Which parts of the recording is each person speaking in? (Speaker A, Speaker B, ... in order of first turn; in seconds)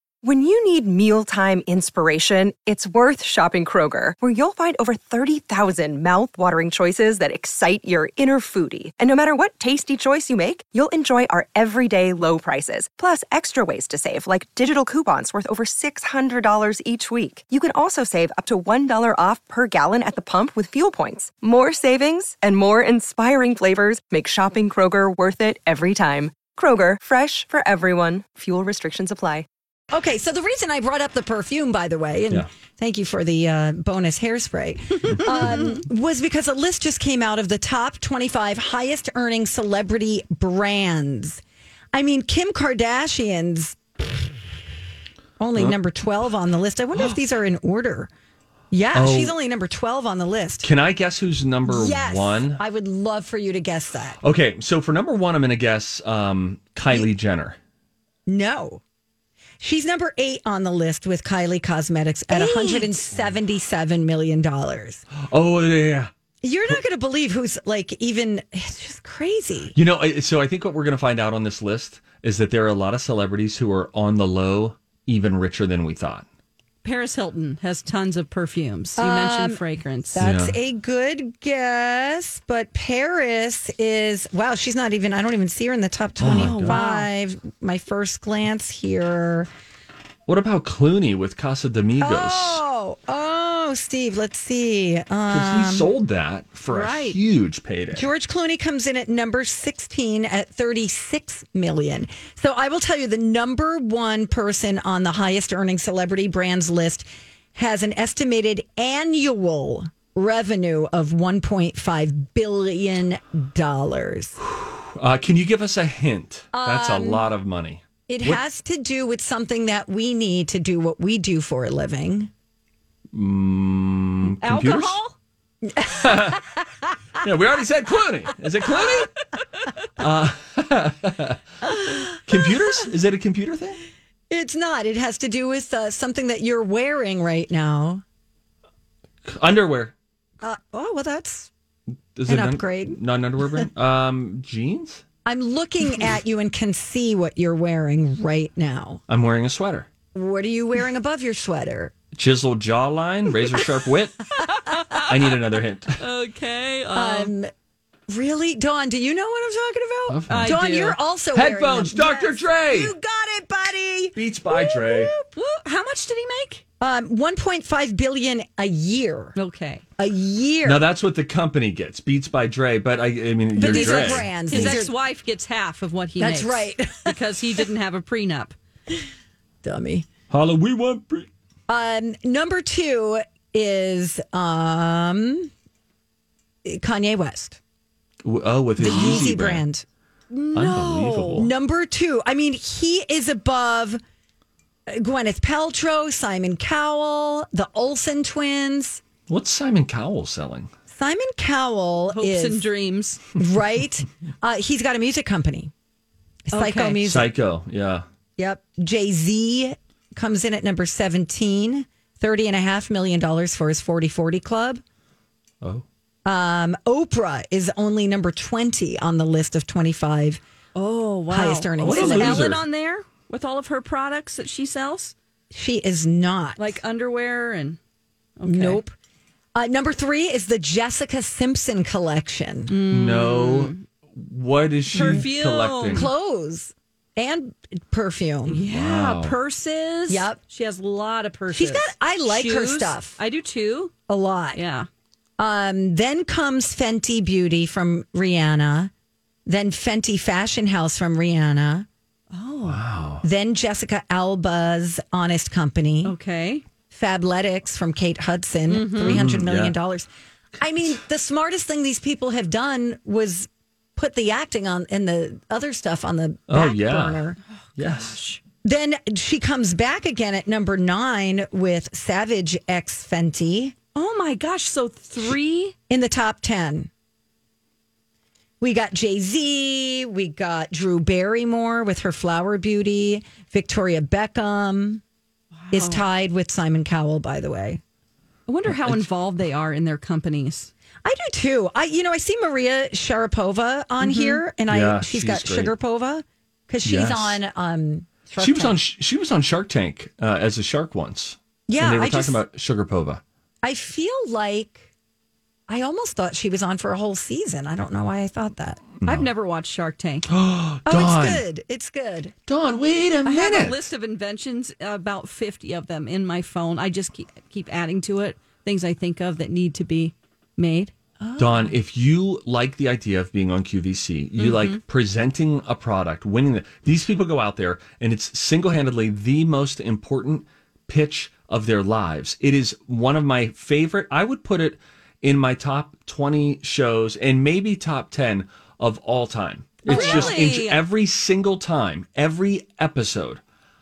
Speaker A: 0.2-29.4
Speaker B: 29.9-41.4, 41.9-43.8, 45.4-48.1, 48.7-50.7, 51.7-54.2, 58.2-58.8, 59.6-65.0, 66.4-69.7, 79.0-79.6, 80.1-89.5, 92.0-95.9, 97.9-114.4, 116.5-117.3, 118.1-122.3, 125.7-126.5, 131.7-132.8, 134.3-138.0, 140.4-141.5, 142.3-143.0, 145.2-149.0, 150.1-151.9, 156.9-157.5, 158.1-165.3, 166.8-169.4, 170.0-170.8, 173.6-174.9, 176.2-177.2, 179.6-180.1, 181.7-185.5, 186.6-187.6, 188.8-194.0, 194.9-199.0, 200.9-202.6, 203.4-205.7, 206.5-207.3, 208.4-214.8, 216.2-220.4, 221.3-222.6, 225.5-226.8, 228.5-228.9, 229.6-232.8, 234.9-235.2, 235.9-238.6, 240.1-240.4, 241.5-243.2, 244.1-244.6, 245.4-248.9, 249.5-251.9, 253.2-256.1, 256.9-260.1, 260.6-267.4, 268.6-273.8, 275.9-276.9, 278.6-285.0, 285.7-287.8, 291.1-298.8, 301.7-302.4, 303.6-304.8, 305.7-308.9, 310.9-312.4, 339.9-340.4
Speaker C: 48.9-49.4, 50.6-52.6, 54.2-57.6, 65.2-66.1, 69.7-76.2, 80.2-80.5, 86.2-86.8, 90.3-92.6, 95.3-98.1, 114.4-118.4, 123.1-125.0, 125.9-126.5, 127.2-129.1, 130.0-131.4, 132.2-133.8, 139.3-139.9, 142.1-145.0, 149.1-149.9, 152.1-154.2, 154.9-156.0, 160.1-160.6, 161.3-162.9, 164.2-165.1, 170.6-174.8, 180.3-181.3, 188.2-189.6, 190.5-191.5, 199.3-200.7, 207.0-208.1, 221.8-222.6, 232.9-236.1, 238.7-239.4, 252.7-253.2, 259.1-259.8, 266.5-268.2, 288.7-289.0, 294.7-295.7, 296.8-297.4, 298.4-303.2, 309.0-309.3, 310.3-311.4, 312.5-313.9, 321.4-343.4
Speaker D: 62.3-63.0, 76.8-80.2, 86.3-87.1, 96.7-97.2, 124.2-125.2, 154.4-155.1, 156.0-157.3, 160.3-161.0, 165.3-166.6, 169.4-169.8, 173.6-178.6, 188.8-189.3, 202.1-203.2, 206.5-207.1, 220.8-225.1, 226.6-227.8, 228.4-228.8, 232.7-233.8, 234.9-236.1, 238.5-243.9, 244.5-244.9, 252.3-252.8, 256.0-256.6, 258.7-259.2, 267.8-268.4, 273.9-275.8, 285.6-286.1, 288.5-290.7, 294.0-294.4, 309.0-310.3, 313.2-321.7, 324.4-324.8, 339.9-340.8